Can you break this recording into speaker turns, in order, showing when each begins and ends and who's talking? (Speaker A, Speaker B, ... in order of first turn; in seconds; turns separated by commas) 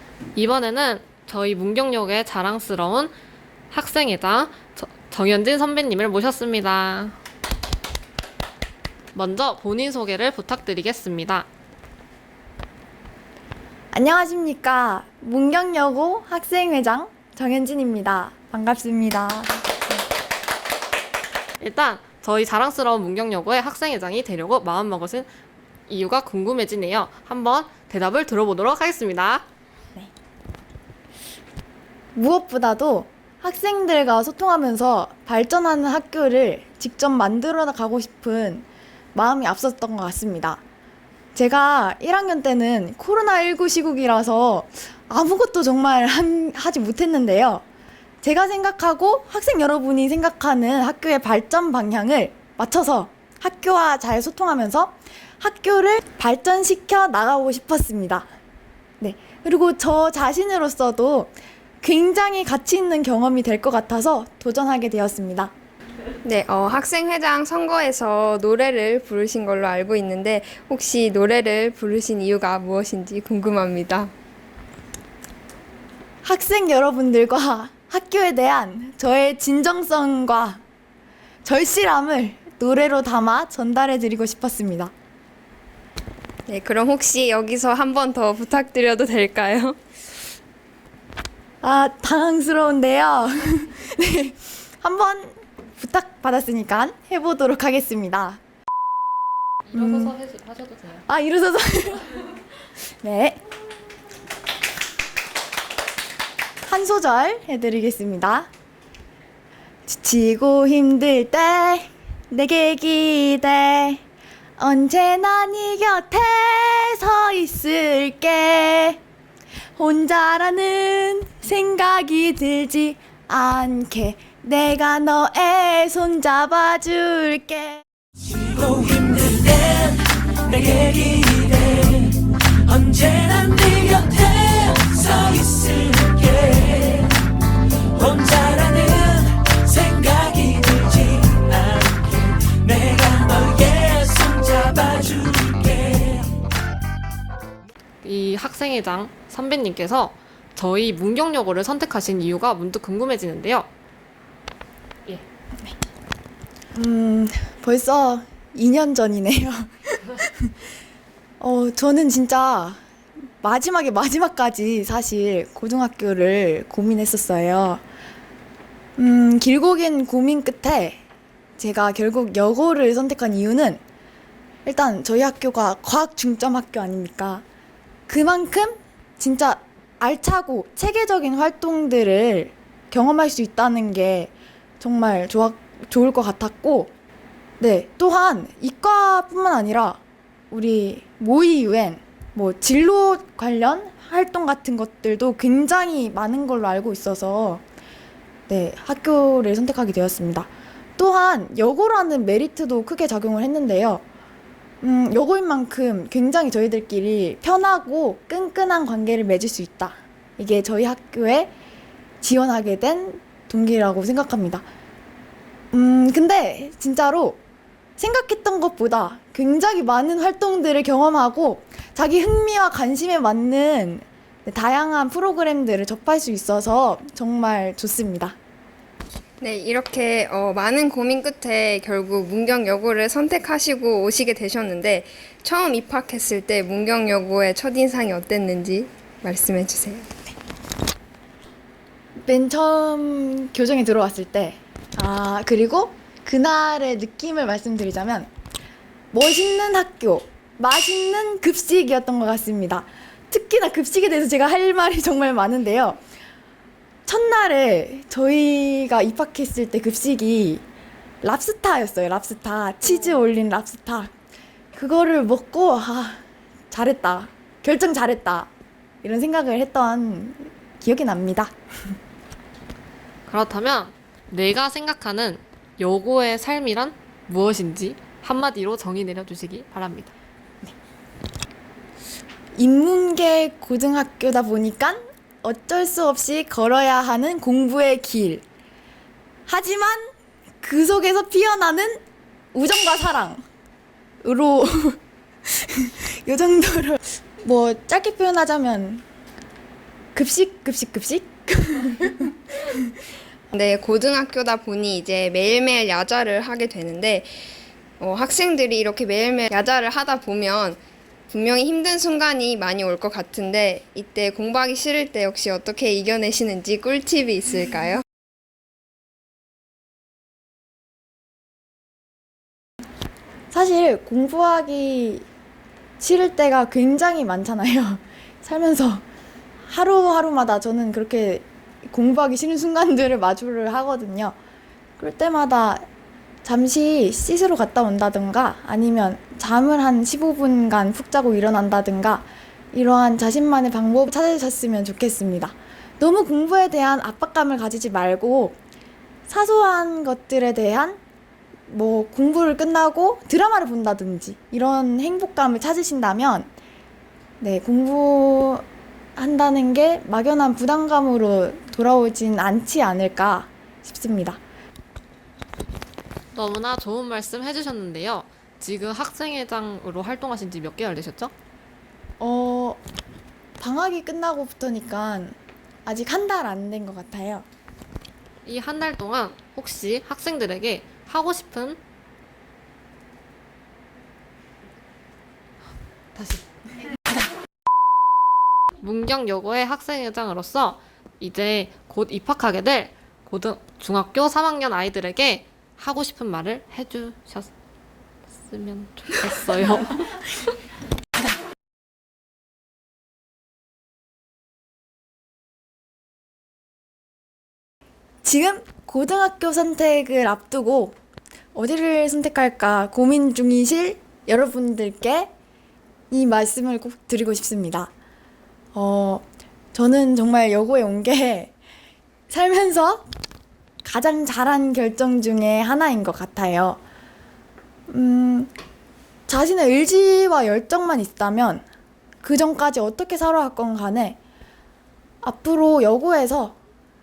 Speaker A: 0.3-3.1, Speaker A: 3.7-7.1, Speaker A: 9.1-11.5, Speaker B: 13.9-20.0, Speaker A: 21.6-25.3, Speaker A: 25.9-29.4, Speaker B: 32.1-40.6, Speaker B: 41.3-47.6, Speaker B: 48.2-58.3, Speaker B: 59.0-65.5, Speaker C: 66.2-74.1, Speaker B: 76.2-80.6, Speaker B: 81.4-84.9, Speaker C: 86.5-89.8, Speaker B: 91.6-98.4, Speaker A: 99.7-101.0, Speaker B: 99.7-100.1, Speaker B: 101.1-102.2, Speaker B: 103.0-103.4, Speaker B: 106.7-108.5, Speaker B: 109.9-114.0, Speaker B: 114.6-119.0, Speaker B: 119.8-127.8, Speaker D: 128.3-137.2, Speaker D: 137.9-146.2, Speaker A: 148.0-153.7, Speaker B: 156.7-160.5, Speaker B: 161.4-162.8, Speaker B: 163.4-167.8, Speaker B: 169.0-171.0, Speaker B: 171.6-173.8, Speaker B: 174.6-177.4, Speaker B: 178.1-186.9, Speaker B: 187.6-197.6, Speaker B: 198.5-204.0, Speaker B: 204.8-211.5, Speaker B: 212.2-214.6, Speaker B: 215.7-217.4, Speaker B: 218.0-228.3, Speaker C: 229.4-240.1, Speaker B: 242.2-248.3, Speaker B: 249.1-256.0, Speaker B: 257.1-260.6, Speaker B: 261.2-264.1, Speaker B: 264.7-268.5, Speaker B: 269.0-271.5, Speaker A: 273.2-280.1, Speaker B: 282.5-288.4, Speaker B: 289.5-290.1, Speaker B: 290.6-292.0, Speaker B: 292.5-293.4, Speaker B: 294.2-299.0, Speaker B: 300.1-302.8, Speaker C: 303.5-307.3, Speaker C: 308.0-318.0, Speaker B: 323.5-325.3, Speaker B: 326.0-329.0, Speaker B: 329.7-334.4, Speaker B: 335.0-335.9, Speaker B: 336.4-348.6, Speaker B: 349.3-351.0, Speaker B: 351.7-356.5, Speaker B: 357.4-358.6, Speaker B: 359.1-364.4, Speaker A: 366.3-371.3, Speaker B: 372.2-372.8, Speaker B: 373.6-377.4, Speaker A: 378.4-381.8, Speaker A: 386.1-386.4, Speaker A: 388.8-397.5, Speaker A: 398.4-400.2, Speaker B: 408.2-410.9, Speaker B: 411.5-415.3, Speaker B: 416.1-417.9, Speaker B: 418.7-421.5, Speaker B: 422.3-423.0, Speaker B: 423.8-426.8, Speaker B: 427.9-428.5, Speaker B: 429.3-431.6, Speaker B: 432.2-434.2, Speaker B: 435.2-436.6